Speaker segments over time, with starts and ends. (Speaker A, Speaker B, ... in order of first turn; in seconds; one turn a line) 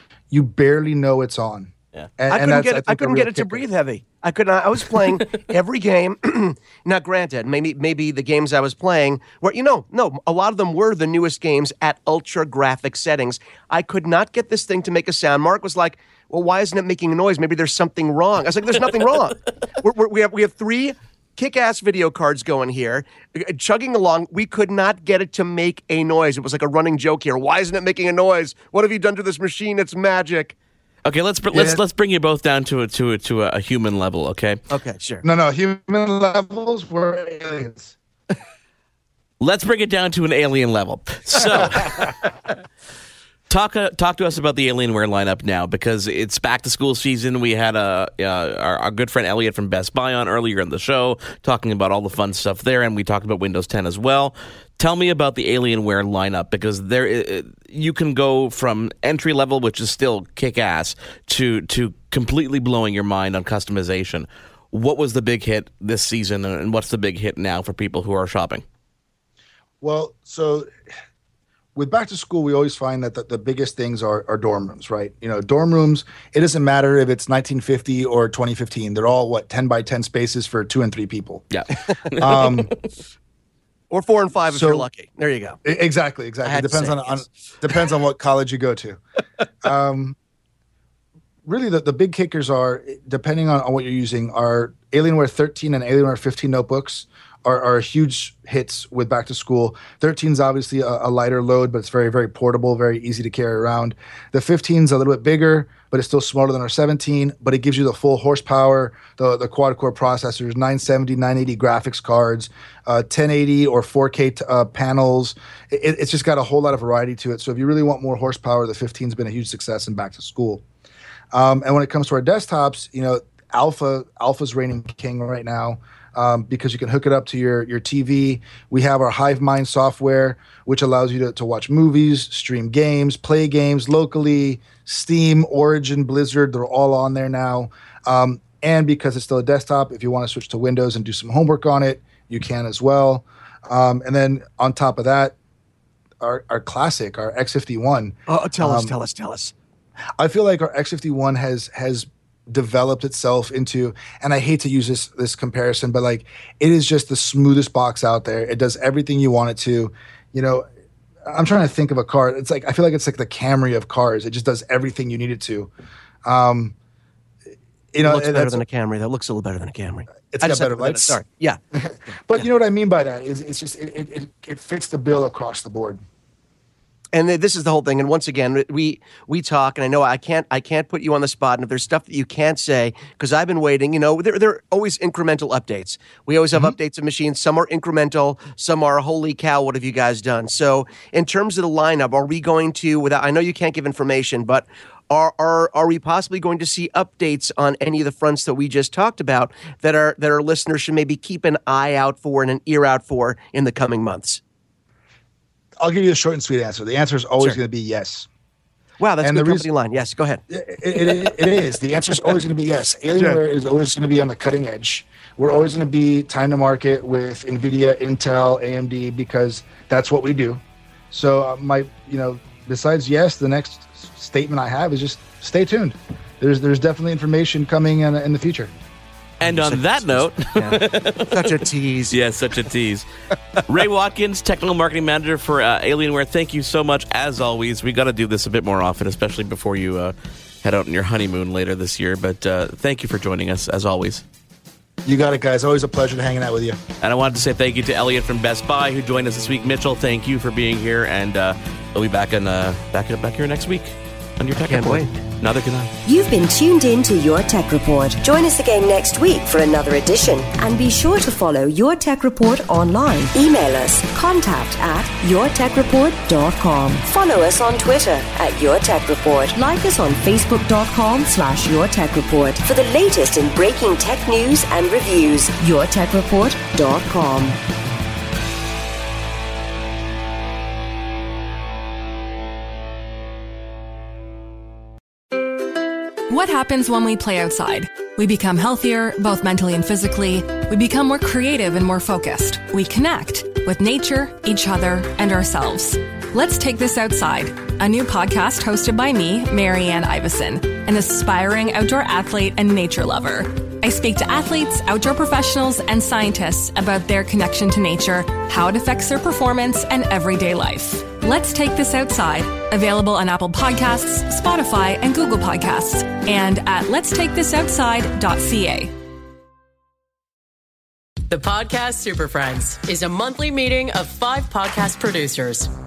Speaker A: 0.3-3.6
Speaker B: 2.3-30.6
Speaker C: 31.1-34.6
Speaker A: 31.5-31.8
Speaker B: 34.7-35.2
Speaker A: 35.2-38.0
Speaker C: 39.4-42.1
Speaker C: 43.5-68.6
Speaker A: 69.8-70.7
Speaker A: 71.8-81.5
Speaker C: 81.5-82.6
Speaker A: 82.2-82.7
Speaker B: 83.9-85.6
Speaker A: 84.5-84.9
Speaker A: 85.7-89.0
Speaker B: 86.5-87.3
Speaker A: 89.6-90.2
Speaker A: 91.5-120.6
Speaker A: 121.3-145.3
Speaker A: 146.2-148.9
Speaker B: 148.3-149.5
Speaker A: 150.2-160.7
Speaker A: 161.3-165.7
Speaker A: 166.2-166.8
Speaker A: 167.9-168.6
Speaker B: 168.0-171.6
Speaker A: 170.3-171.2
Speaker A: 171.8-176.0
Speaker B: 177.1-204.4
Speaker A: 205.8-208.3
Speaker B: 209.0-210.4
Speaker A: 209.2-209.7
Speaker A: 210.5-228.7
Speaker B: 229.4-232.2
Speaker C: 229.4-231.6
Speaker C: 232.1-233.1
Speaker C: 233.7-244.2
Speaker A: 245.1-246.8
Speaker C: 247.0-255.9
Speaker B: 254.6-255.1
Speaker D: 256.1-277.6
Speaker E: 286.3-318.9
Speaker F: 321.3-325.7